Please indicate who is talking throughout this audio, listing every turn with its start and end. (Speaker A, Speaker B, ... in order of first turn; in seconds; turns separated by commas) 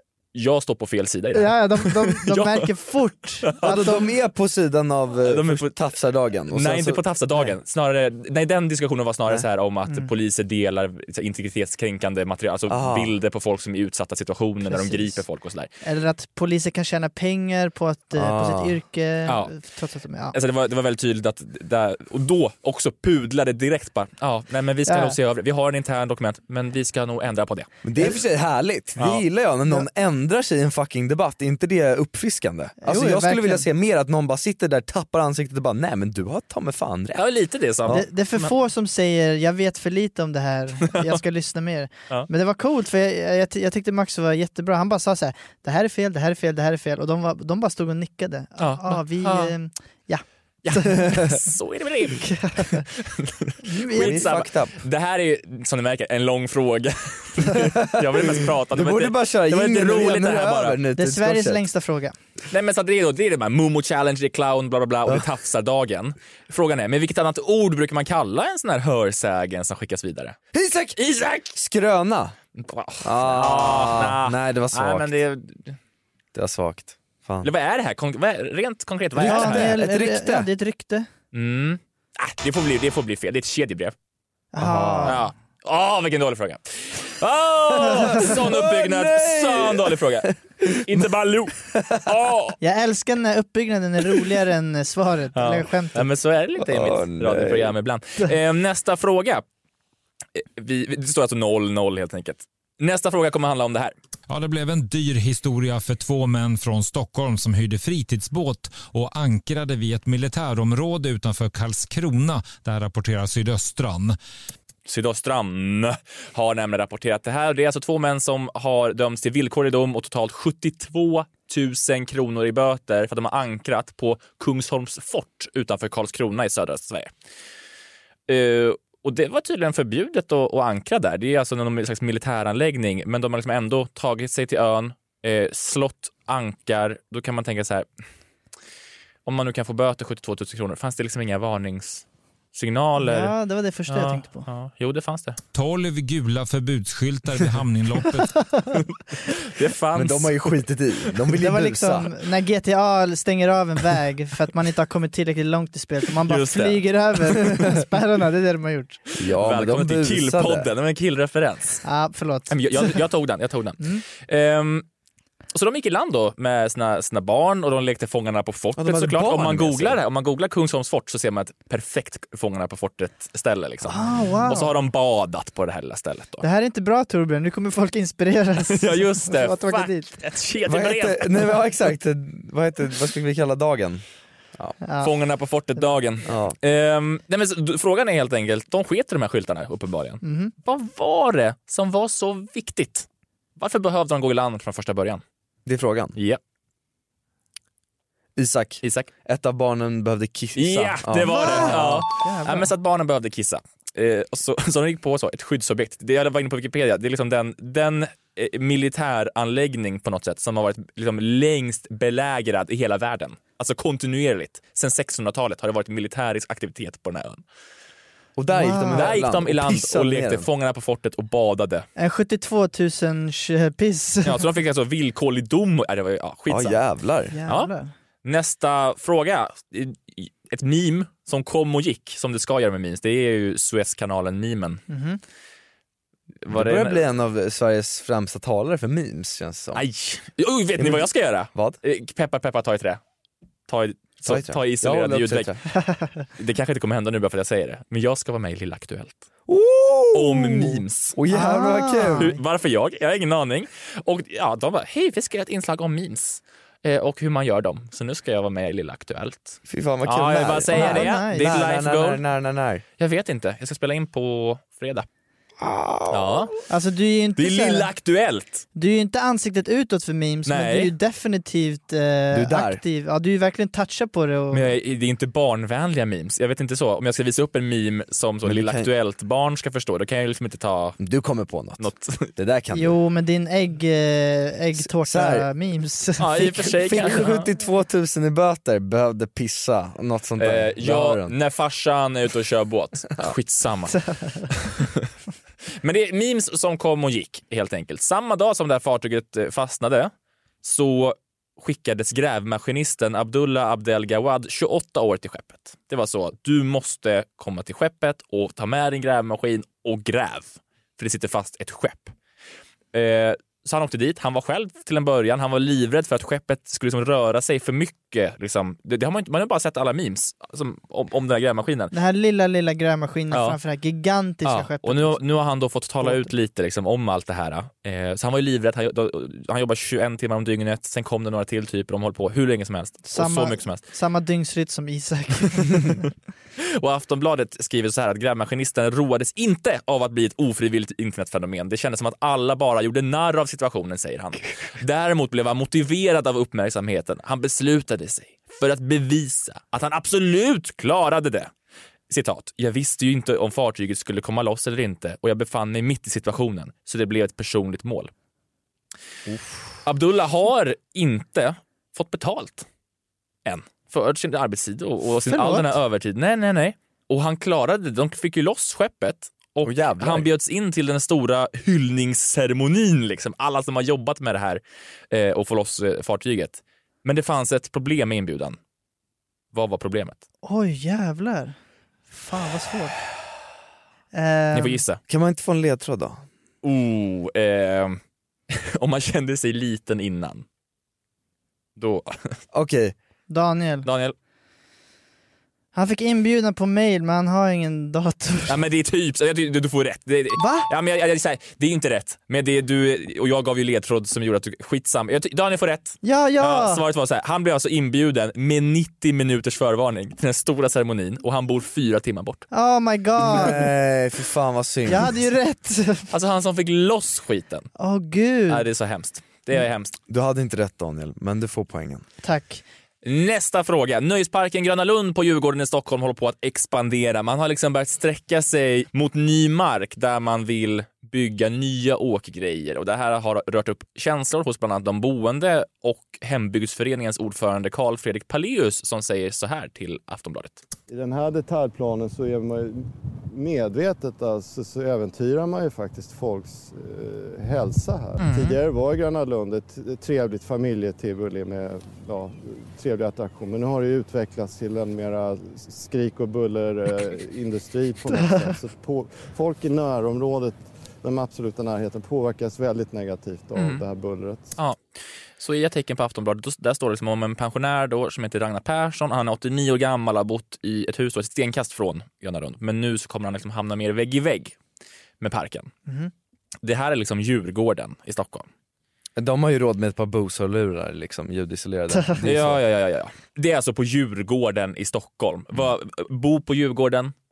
Speaker A: 0.3-2.7, Speaker B: 1.3-4.0, Speaker A: 3.5-3.8, Speaker C: 3.6-7.0, Speaker A: 5.2-5.9, Speaker A: 6.5-15.7, Speaker C: 12.7-13.1, Speaker B: 14.7-15.2, Speaker B: 15.8-20.4, Speaker C: 18.1-18.8, Speaker A: 19.3-19.6, Speaker A: 20.3-27.7, Speaker B: 24.9-25.2, Speaker C: 27.8-37.2, Speaker A: 29.0-29.2, Speaker B: 32.8-33.6, Speaker A: 37.2-38.4, Speaker B: 37.9-51.0, Speaker A: 48.6-49.5, Speaker A: 50.6-60.8, Speaker B: 52.2-52.9, Speaker B: 53.6-54.3, Speaker C: 53.9-54.8, Speaker C: 57.5-61.6, Speaker B: 61.0-62.1, Speaker A: 62.5-70.4, Speaker C: 70.5-72.3, Speaker A: 72.6-75.8, Speaker C: 73.0-75.1, Speaker C: 76.3-77.5, Speaker A: 77.4-79.8, Speaker C: 79.2-80.5, Speaker B: 79.2-81.1, Speaker A: 81.3-83.9, Speaker B: 84.5-85.2, Speaker C: 84.6-85.2, Speaker A: 85.0-92.6, Speaker C: 87.9-90.8, Speaker C: 91.7-92.0, Speaker B: 92.6-96.0, Speaker A: 95.3-99.4, Speaker C: 96.6-97.7, Speaker A: 100.4-104.0, Speaker D: 104.3-114.2, Speaker A: 114.9-127.1, Speaker A: 128.3-137.9, Speaker A: 139.3-143.3, Speaker B: 143.0-144.5, Speaker A: 143.9-145.4, Speaker D: 145.5-148.3, Speaker B: 148.5-148.8, Speaker A: 149.4-150.6, Speaker C: 149.9-152.1, Speaker B: 151.4-159.0, Speaker A: 156.3-157.6, Speaker C: 159.2-160.7, Speaker A: 159.3-161.8, Speaker B: 161.8-162.6, Speaker A: 162.5-164.8, Speaker A: 165.5-176.4, Speaker C: 168.8-170.0, Speaker B: 173.9-174.7, Speaker B: 176.4-180.1, Speaker A: 178.6-181.6, Speaker C: 180.7-184.0, Speaker B: 184.8-185.1, Speaker A: 185.0-193.1, Speaker C: 186.3-186.6, Speaker B: 190.2-190.5, Speaker A: 193.6-195.2, Speaker C: 195.7-196.2, Speaker C: 198.4-202.0, Speaker A: 198.8-199.1, Speaker A: 200.6-217.4, Speaker B: 201.3-202.7, Speaker C: 218.4-220.5, Speaker B: 218.5-219.2, Speaker A: 218.9-221.9, Speaker B: 222.0-224.4, Speaker A: 224.2-226.8, Speaker C: 226.5-227.3, Speaker B: 227.3-227.9, Speaker A: 228.2-234.8, Speaker B: 234.9-235.2, Speaker A: 236.4-237.0, Speaker C: 236.5-239.8, Speaker A: 239.8-243.0, Speaker C: 240.8-241.8, Speaker A: 243.7-245.5, Speaker C: 244.2-245.6, Speaker B: 245.9-246.2, Speaker A: 246.4-249.2, Speaker C: 249.5-252.3, Speaker A: 250.1-251.2, Speaker B: 251.3-252.3, Speaker A: 252.1-262.2, Speaker C: 259.7-262.8, Speaker B: 260.7-261.5, Speaker A: 263.0-265.1, Speaker C: 265.6-266.5, Speaker A: 266.1-266.5, Speaker B: 266.7-267.9, Speaker A: 267.4-268.6, Speaker B: 268.8-274.7, Speaker A: 270.5-270.9, Speaker C: 272.3-272.8, Speaker A: 274.5-281.0, Speaker C: 278.4-278.9, Speaker C: 281.0-283.0, Speaker A: 281.8-282.3, Speaker B: 282.7-287.2, Speaker C: 284.8-285.5, Speaker A: 286.2-287.5, Speaker C: 286.9-291.4, Speaker A: 290.4-295.1, Speaker B: 294.1-294.4, Speaker A: 295.8-300.1, Speaker A: 300.6-312.1, Speaker A: 312.9-321.9, Speaker B: 321.9-325.2, Speaker A: 323.3-323.6, Speaker A: 324.4-333.8, Speaker B: 326.0-326.3, Speaker B: 333.1-336.0, Speaker A: 336.6-351.5, Speaker A: 352.1-358.1, Speaker A: 359.8-362.7, Speaker A: 363.5-378.6, Speaker C: 369.6-370.3, Speaker A: 379.5-380.2, Speaker B: 380.4-381.6, Speaker B: 382.1-382.9, Speaker B: 384.1-384.8, Speaker A: 384.5-385.0, Speaker C: 385.1-386.2, Speaker A: 386.6-388.0, Speaker A: 388.5-390.4, Speaker A: 391.8-392.4, Speaker C: 392.5-392.9, Speaker B: 393.3-393.9, Speaker A: 393.9-394.1, Speaker B: 395.7-398.6, Speaker A: 398.5-412.5, Speaker B: 400.4-400.7, Speaker B: 406.0-406.8, Speaker B: 412.5-413.7, Speaker C: 413.2-415.2, Speaker B: 414.9-416.1, Speaker A: 416.1-417.7, Speaker B: 417.8-418.6, Speaker A: 418.5-420.0, Speaker C: 420.1-422.0, Speaker B: 422.2-422.6, Speaker A: 423.0-440.6, Speaker E: 440.9-464.6, Speaker A: 448.2-448.6, Speaker A: 463.6-463.8, Speaker A: 465.4-474.6, Speaker A: 475.2-475.7, Speaker A: 476.6-478.5, Speaker C: 479.2-482.6, Speaker A: 482.2-487.1